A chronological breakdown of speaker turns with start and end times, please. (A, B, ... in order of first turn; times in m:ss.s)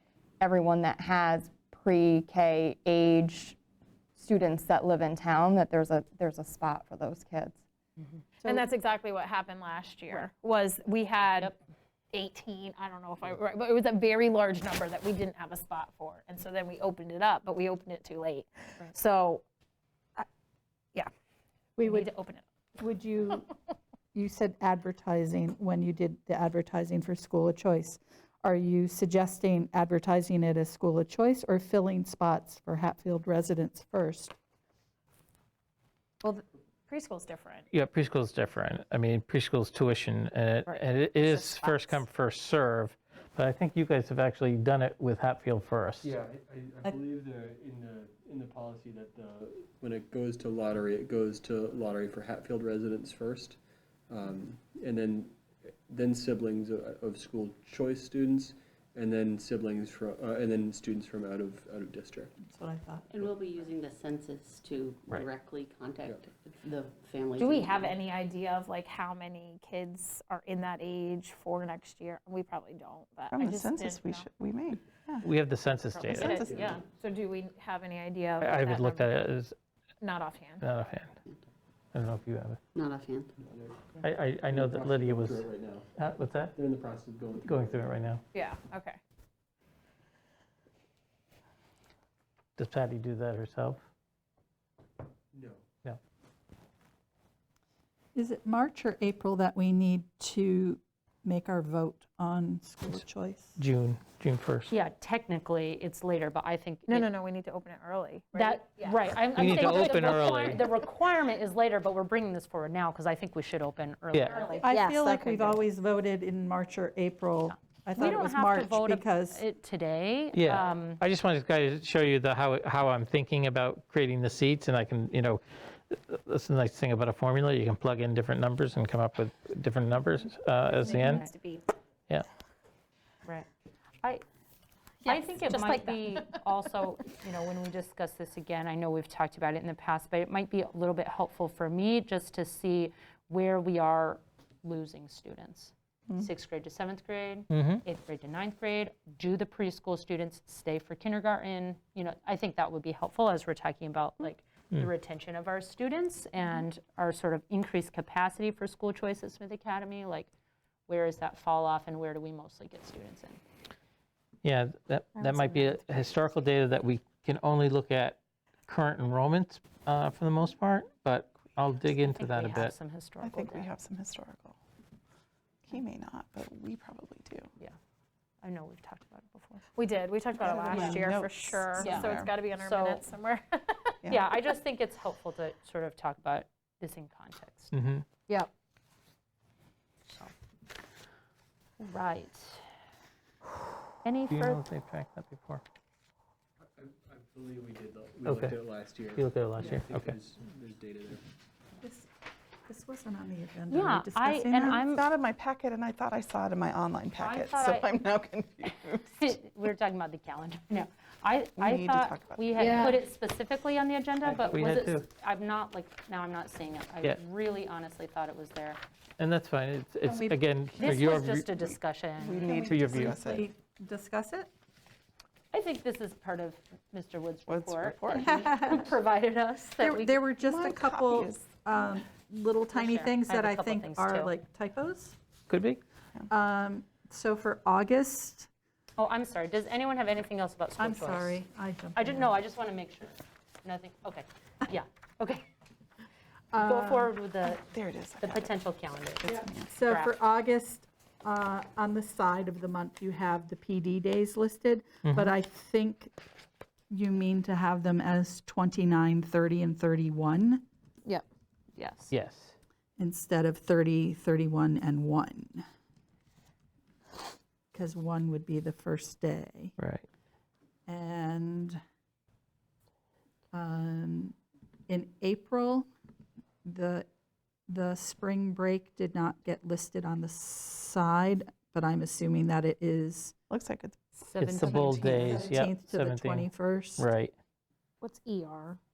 0:00.4-0:03.6 A
0:04.2-0:07.6 A
0:08.4-0:11.6 B
0:12.1-0:19.4 B
0:21.8-0:22.1 C
0:21.8-0:22.4 B
0:22.8-0:23.5 C
0:24.1-0:34.4 C
0:36.2-0:37.6 B
0:37.7-0:46.1 D
0:41.1-0:42.0 B
0:46.0-0:53.6 E
0:54.1-0:55.3 E
0:55.9-1:02.3 E
1:02.4-1:03.1 C
1:03.1-1:08.0 F
1:07.4-1:14.3 B
1:13.3-1:15.3 G
1:15.2-1:16.4 D
1:15.9-1:19.2 B
1:16.4-1:16.9 E
1:18.4-1:19.5 D
1:20.0-1:20.6 B
1:20.6-1:21.1 D
1:21.9-1:22.6 D
1:22.7-1:23.3 F
1:23.4-1:23.8 E
1:24.0-1:26.6 D
1:24.4-1:25.9 E
1:26.5-1:27.9 E
1:27.4-1:28.2 D
1:28.3-1:29.0 B
1:32.6-1:33.8 D
1:35.3-1:35.6 E
1:38.1-1:43.6 C
1:43.6-1:44.7 D
1:44.7-1:47.1 H
1:46.9-1:50.1 B
1:48.3-1:54.6 H
1:49.4-1:50.6 D
1:54.1-1:54.4 D
1:54.3-1:55.5 B
1:54.6-1:59.4 C
1:57.5-2:01.0 H
2:00.3-2:11.2 D
2:10.6-2:11.6 B
2:11.0-2:11.3 H
2:15.0-2:16.4 B
2:15.0-2:40.3 H
2:27.5-2:27.8 D
2:40.9-2:43.4 H
2:44.4-2:52.8 D
2:52.1-2:53.7 H
2:53.2-2:54.6 G
2:55.6-2:57.5 G
2:58.4-2:59.6 H
2:59.7-3:03.9 B
3:00.4-3:02.4 G
3:00.7-3:01.0 F
3:00.7-3:01.0 H
3:01.8-3:03.0 H
3:04.0-3:04.3 G
3:04.1-3:07.7 H
3:07.7-3:08.0 D
3:10.0-3:10.3 H
3:11.8-3:12.6 H
3:14.0-3:14.6 H
3:14.3-3:15.6 D
3:16.6-3:21.2 E
3:18.2-3:18.5 D
3:19.1-3:20.2 D
3:21.8-3:22.1 C
3:22.7-3:25.0 C
3:23.7-3:25.0 H
3:24.9-3:29.3 G
3:27.2-3:27.9 H
3:29.1-3:38.8 H
3:31.6-3:32.9 G
3:32.6-3:32.9 B
3:32.6-3:33.0 C
3:34.3-3:35.0 D
3:39.2-3:41.5 D
3:40.0-3:40.4 C
3:40.1-3:41.3 G
3:40.8-3:42.7 H
3:42.2-3:43.5 G
3:42.6-3:43.2 D
3:43.1-3:44.5 C
3:45.5-3:50.2 H
3:47.5-3:48.9 G
3:48.2-3:48.9 C
3:49.8-3:55.2 C
3:50.4-3:51.5 G
3:52.7-3:54.3 H
3:55.5-3:55.8 D
3:56.3-3:58.5 C
3:59.0-4:01.4 H
4:00.8-4:02.4 C
4:01.9-4:05.4 H
4:06.5-4:07.1 C
4:06.6-4:07.6 H
4:07.5-4:08.6 G
4:08.2-4:10.1 H
4:09.2-4:09.7 G
4:09.7-4:16.1 C
4:15.0-4:15.3 D
4:16.9-4:20.6 C
4:21.8-4:22.1 B
4:22.1-4:22.5 D
4:23.0-4:25.6 C
4:27.7-4:29.8 C
4:29.8-4:30.0 D
4:30.9-4:31.8 C
4:33.5-4:34.4 C
4:34.9-4:35.9 C
4:36.6-4:37.1 C
4:37.7-4:43.3 C
4:43.5-4:44.0 G
4:44.3-4:47.1 C
4:44.4-4:47.3 D
4:44.6-4:45.4 G
4:48.0-4:48.8 B